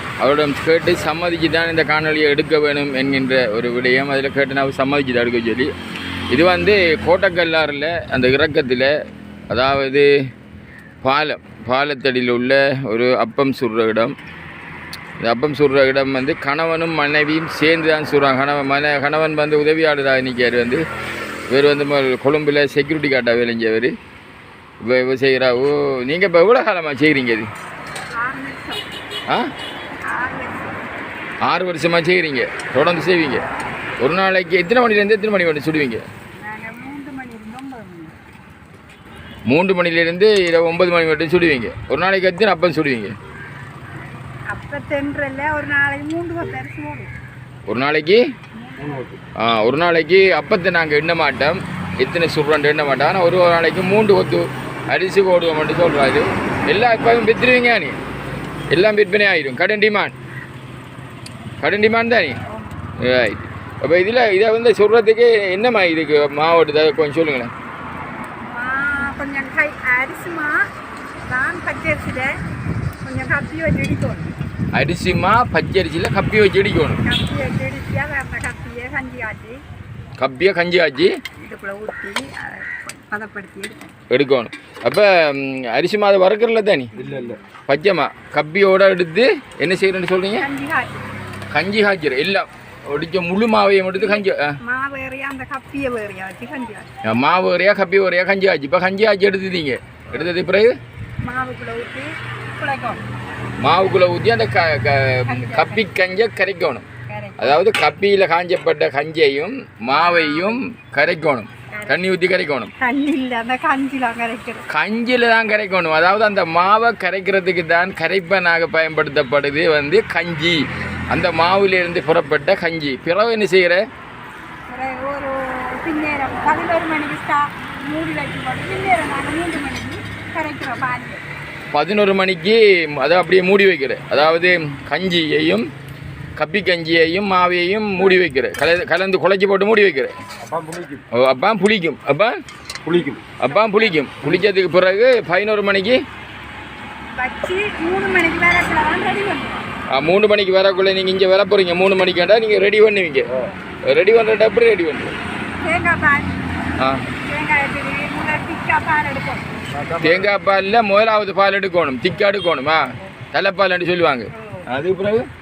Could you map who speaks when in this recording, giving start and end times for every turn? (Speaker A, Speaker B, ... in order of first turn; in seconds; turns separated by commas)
Speaker A: 0.2-5.7, Speaker A: 6.3-8.9, Speaker A: 9.5-10.1, Speaker A: 11.0-14.2, Speaker A: 15.2-20.8, Speaker A: 21.5-23.9, Speaker A: 24.8-27.5, Speaker B: 28.1-28.8, Speaker B: 30.1-30.8, Speaker A: 31.5-33.4, Speaker A: 34.0-36.0, Speaker B: 36.4-38.2, Speaker A: 39.5-43.1, Speaker B: 44.5-47.1, Speaker A: 47.7-48.2, Speaker B: 48.6-49.0, Speaker C: 48.8-49.2, Speaker A: 49.4-58.0, Speaker A: 58.7-60.1, Speaker A: 61.6-62.4, Speaker A: 63.0-67.5, Speaker B: 68.5-70.6, Speaker B: 71.3-72.3, Speaker B: 73.0-74.3, Speaker A: 74.7-77.0, Speaker B: 77.0-79.6, Speaker A: 80.2-81.2, Speaker B: 81.4-83.9, Speaker A: 84.1-86.9, Speaker B: 87.0-87.4, Speaker C: 87.0-87.4, Speaker A: 87.7-90.5, Speaker B: 90.4-90.9, Speaker A: 91.5-94.5, Speaker B: 94.0-96.9, Speaker A: 97.0-100.7, Speaker B: 101.2-103.0, Speaker A: 103.6-106.8, Speaker B: 105.3-105.9, Speaker B: 107.1-107.6, Speaker A: 107.4-112.7, Speaker B: 109.9-110.6, Speaker B: 111.7-112.1, Speaker B: 112.8-114.7, Speaker A: 114.7-123.8, Speaker B: 124.7-131.2, Speaker A: 131.7-135.7, Speaker A: 136.4-140.1, Speaker C: 140.4-141.0, Speaker A: 141.1-142.4, Speaker C: 142.8-143.2, Speaker A: 143.4-146.0, Speaker B: 143.4-144.1, Speaker B: 147.2-149.7, Speaker A: 149.9-153.3, Speaker A: 153.9-155.1, Speaker B: 155.6-156.3, Speaker A: 156.8-157.1, Speaker B: 157.1-159.5, Speaker C: 159.7-160.3, Speaker A: 160.0-165.2, Speaker B: 164.4-164.6